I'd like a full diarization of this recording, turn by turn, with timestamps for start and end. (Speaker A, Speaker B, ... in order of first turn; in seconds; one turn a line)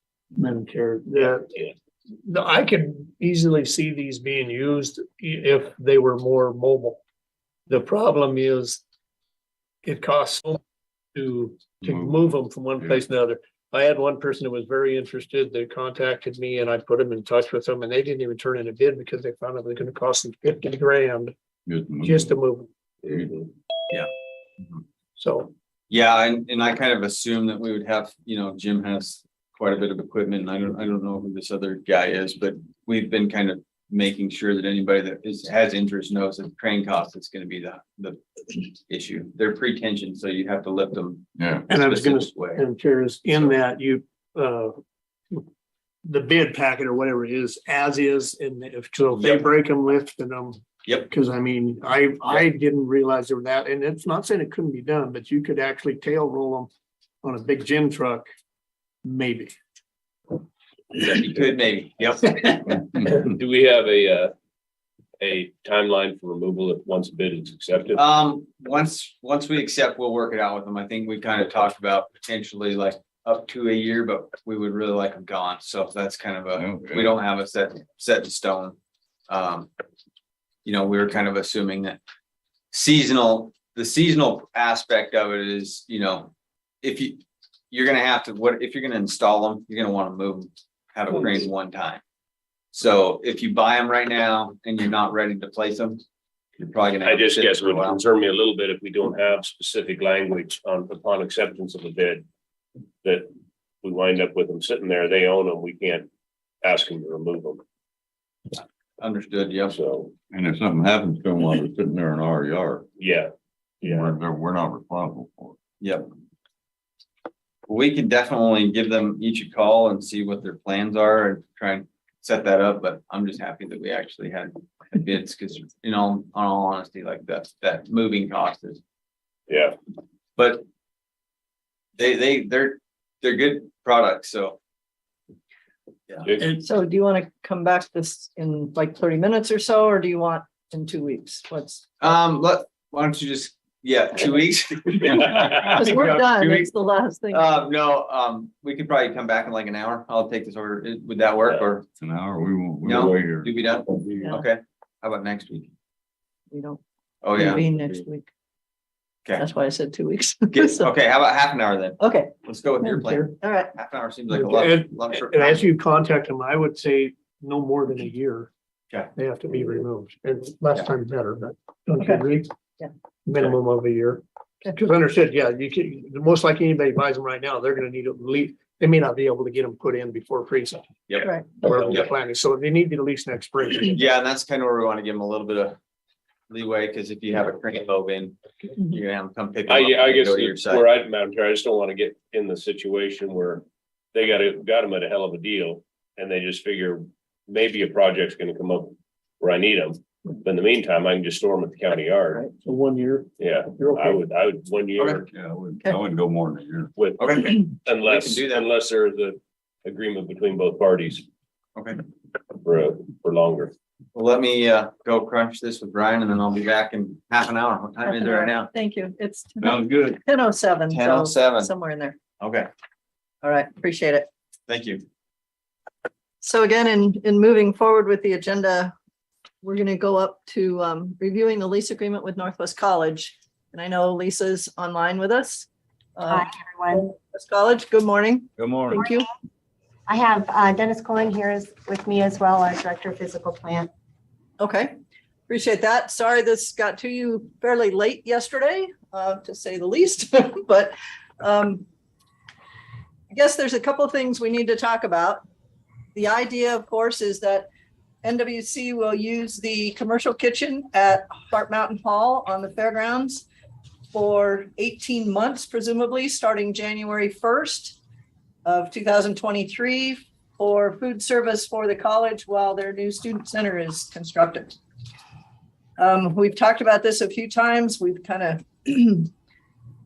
Speaker A: 0.3-1.5
Speaker A: 2.2-7.0
Speaker A: 7.7-8.8
Speaker A: 9.8-10.6
Speaker A: 11.1-21.3
Speaker B: 11.8-13.0
Speaker B: 21.6-22.3
Speaker A: 22.0-22.7
Speaker B: 23.0-23.4
Speaker C: 23.1-23.4
Speaker A: 25.2-25.5
Speaker D: 25.9-42.6
Speaker B: 41.4-41.6
Speaker A: 41.7-44.7
Speaker A: 46.0-56.7
Speaker D: 49.2-49.5
Speaker A: 57.2-58.3
Speaker A: 59.0-59.5
Speaker D: 60.9-62.9
Speaker C: 62.9-64.3
Speaker C: 65.2-68.0
Speaker D: 67.9-78.8
Speaker B: 76.5-77.1
Speaker D: 79.3-79.7
Speaker D: 80.6-82.0
Speaker D: 82.7-92.0
Speaker D: 92.7-96.0
Speaker D: 96.6-98.0
Speaker C: 97.0-102.2
Speaker C: 103.0-103.3
Speaker C: 103.8-106.1
Speaker C: 106.6-107.6
Speaker D: 109.0-109.7
Speaker C: 109.7-110.1
Speaker B: 110.3-112.9
Speaker C: 113.0-113.3
Speaker C: 113.8-114.2
Speaker B: 113.8-115.6
Speaker D: 115.8-116.1
Speaker D: 117.7-128.8
Speaker C: 129.5-129.7
Speaker D: 130.4-130.6
Speaker D: 132.0-134.6
Speaker C: 136.2-136.6
Speaker E: 136.6-142.1
Speaker D: 142.0-146.7
Speaker E: 145.8-147.5
Speaker D: 147.3-151.8
Speaker B: 152.0-154.3
Speaker D: 152.8-155.7
Speaker E: 156.5-156.8
Speaker D: 157.2-157.6
Speaker E: 157.3-158.3
Speaker E: 159.4-160.9
Speaker D: 160.5-165.6
Speaker E: 162.0-163.7
Speaker A: 164.3-168.5
Speaker A: 169.2-172.5
Speaker A: 173.2-180.9
Speaker E: 181.2-181.5
Speaker A: 181.6-184.0
Speaker C: 181.7-182.1
Speaker D: 183.9-185.8
Speaker D: 186.5-190.8
Speaker C: 189.7-193.6
Speaker C: 194.1-202.5
Speaker A: 202.6-204.2
Speaker C: 203.4-205.2
Speaker B: 205.3-206.9
Speaker C: 206.9-211.2
Speaker D: 207.2-208.7
Speaker C: 212.6-213.7
Speaker D: 214.1-218.7
Speaker E: 218.0-222.2
Speaker D: 219.6-220.2
Speaker D: 220.9-221.7
Speaker D: 222.4-222.7
Speaker E: 223.4-224.3
Speaker D: 224.7-225.0
Speaker E: 226.4-228.9
Speaker E: 229.6-239.2
Speaker F: 236.3-237.0
Speaker B: 238.6-239.1
Speaker F: 240.1-243.9
Speaker E: 244.6-244.9
Speaker E: 245.5-251.8
Speaker E: 253.3-255.4
Speaker E: 256.1-257.7
Speaker E: 258.2-263.4
Speaker E: 264.1-268.0
Speaker E: 268.6-274.8
Speaker E: 276.0-279.3